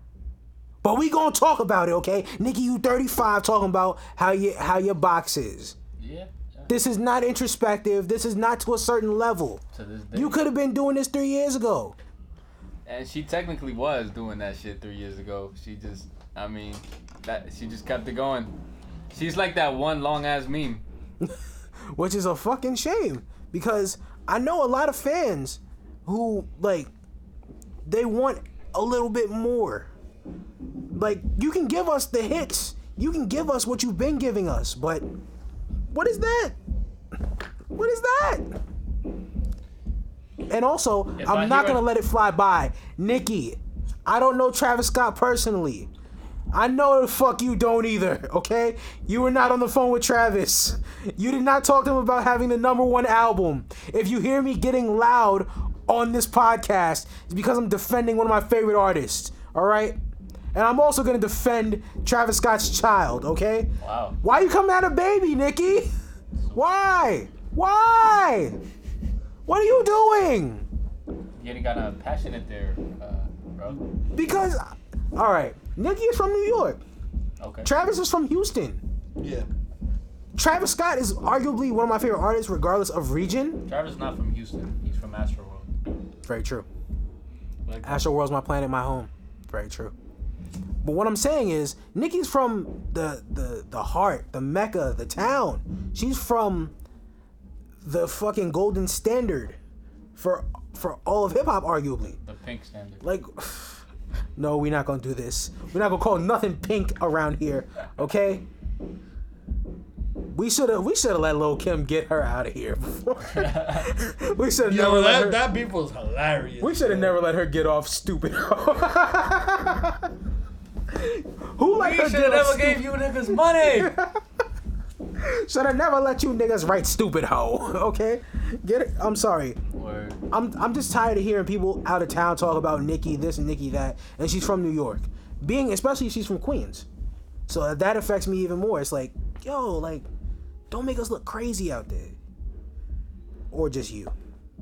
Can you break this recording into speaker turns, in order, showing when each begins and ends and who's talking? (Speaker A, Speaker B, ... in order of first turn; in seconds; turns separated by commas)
Speaker A: 0.8-5.8, Speaker B: 6.0-6.7, Speaker A: 6.7-9.6, Speaker B: 9.7-10.4, Speaker A: 10.1-12.0, Speaker B: 12.9-18.5, Speaker B: 19.1-20.8, Speaker A: 21.2-26.9, Speaker A: 27.9-29.9, Speaker A: 30.9-35.1, Speaker A: 35.9-36.6, Speaker A: 37.7-38.5, Speaker A: 40.5-45.9, Speaker B: 41.2-41.9, Speaker A: 46.5-60.0, Speaker A: 60.5-63.7, Speaker B: 63.8-64.2, Speaker A: 64.2-65.9, Speaker B: 66.4-66.6, Speaker A: 66.5-68.6, Speaker A: 69.5-70.7, Speaker B: 71.4-73.8, Speaker A: 74.1-76.8, Speaker B: 77.4-77.7, Speaker A: 77.7-78.8, Speaker C: 79.2-79.5, Speaker A: 80.4-83.6, Speaker B: 83.7-85.7, Speaker A: 86.2-86.7, Speaker C: 87.7-88.1, Speaker A: 87.8-89.9, Speaker A: 90.8-96.7, Speaker A: 97.8-99.6, Speaker A: 100.2-102.2, Speaker B: 102.2-103.0, Speaker A: 103.0-103.8, Speaker A: 104.4-108.5, Speaker A: 110.3-115.4, Speaker B: 113.3-113.9, Speaker C: 114.7-117.2, Speaker A: 116.6-120.1, Speaker A: 120.9-122.8, Speaker B: 121.7-123.9, Speaker C: 122.5-123.9, Speaker A: 123.6-124.2, Speaker A: 125.2-129.6, Speaker B: 129.8-130.2, Speaker A: 130.3-136.9, Speaker A: 137.5-140.1, Speaker A: 140.7-142.2, Speaker A: 143.5-144.1